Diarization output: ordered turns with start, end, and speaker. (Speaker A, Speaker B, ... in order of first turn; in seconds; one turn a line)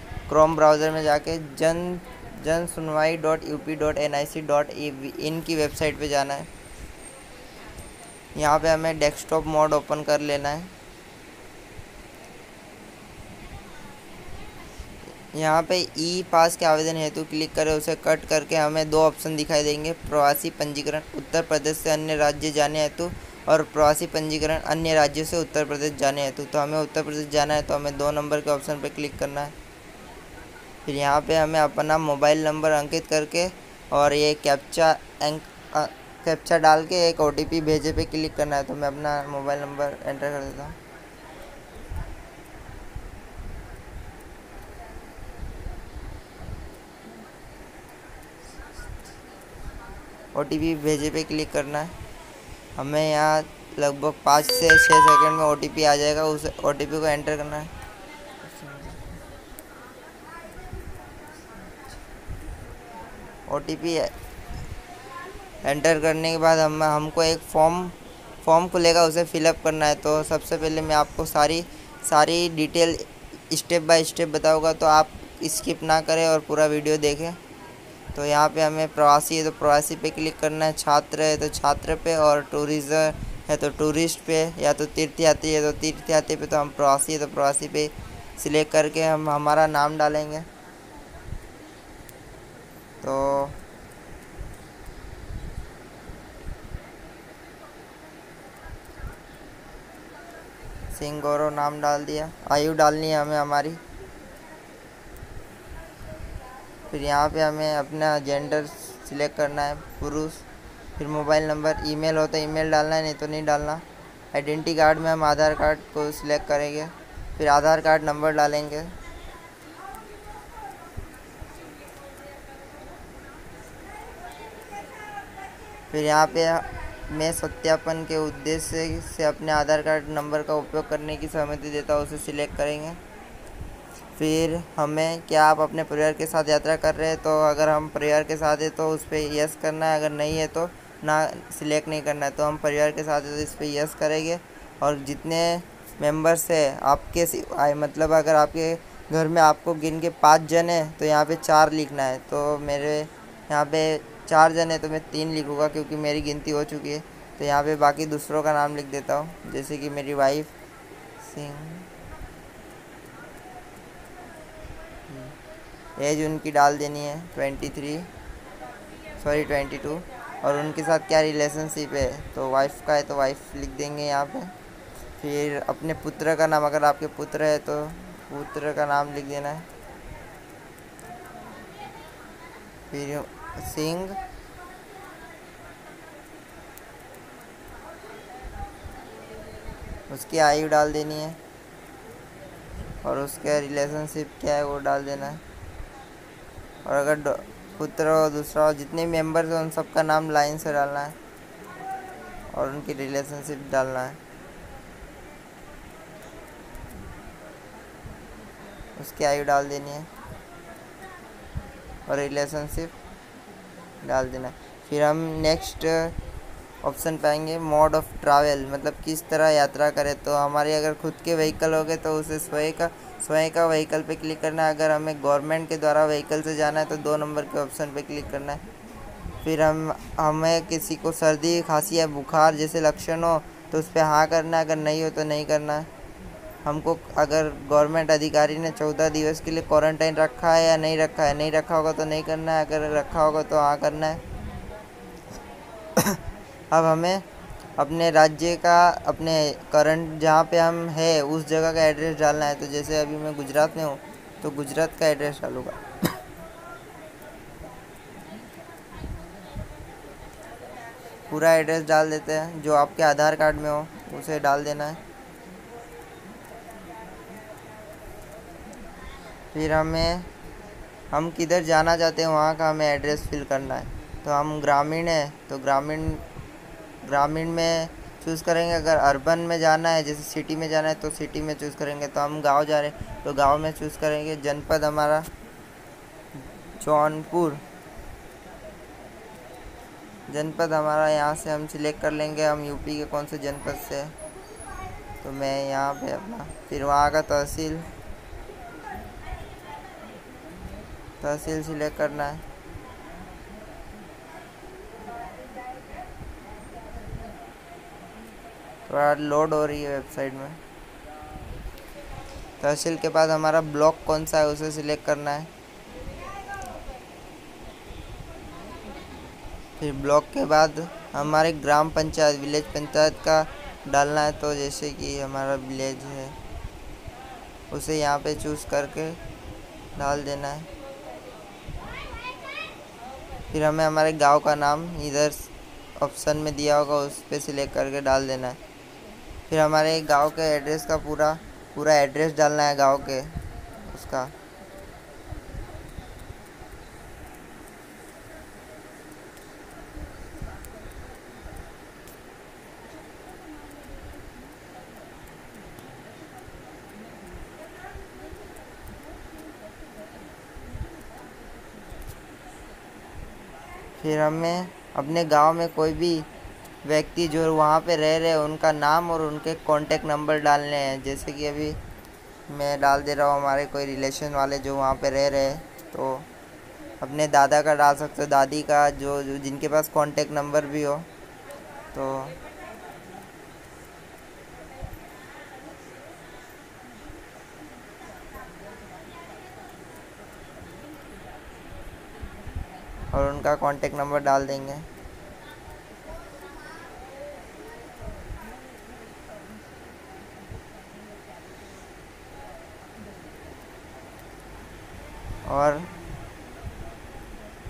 Speaker A: 0.3-6.5
Speaker A: 8.3-10.7
Speaker A: 15.3-29.5
Speaker A: 30.9-40.8
Speaker A: 50.3-51.9
Speaker A: 52.8-57.7
Speaker A: 58.5-59.0
Speaker A: 63.5-64.1
Speaker A: 65.6-77.4
Speaker A: 78.1-90.5
Speaker A: 93.0-93.6
Speaker A: 100.9-103.8
Speaker A: 106.9-110.5
Speaker A: 111.0-119.0
Speaker A: 125.9-133.0
Speaker A: 134.2-160.5
Speaker A: 161.2-161.9
Speaker A: 166.0-168.1
Speaker A: 169.2-174.5
Speaker A: 175.2-179.7
Speaker A: 182.9-184.2
Speaker A: 190.1-191.4
Speaker A: 193.0-195.4
Speaker A: 196.8-201.1
Speaker A: 202.5-204.2
Speaker A: 208.9-210.1
Speaker A: 212.1-212.9
Speaker A: 214.0-216.2
Speaker A: 216.8-228.6
Speaker A: 229.4-235.9
Speaker A: 236.7-244.2
Speaker A: 246.7-247.2
Speaker A: 247.8-255.9
Speaker A: 261.3-265.0
Speaker A: 269.5-270.3
Speaker A: 271.1-276.2
Speaker A: 277.0-285.3
Speaker A: 286.8-287.6
Speaker A: 290.3-294.1
Speaker A: 295.2-297.9
Speaker A: 301.2-302.4
Speaker A: 308.9-310.6
Speaker A: 312.6-315.5
Speaker A: 319.8-326.4
Speaker A: 327.7-329.2
Speaker A: 329.9-330.7
Speaker A: 333.5-338.6
Speaker A: 339.5-344.3
Speaker A: 364.0-366.3
Speaker A: 366.8-371.8
Speaker A: 372.5-376.2
Speaker A: 377.0-381.1
Speaker A: 381.9-382.4
Speaker A: 393.1-394.9
Speaker A: 405.4-405.9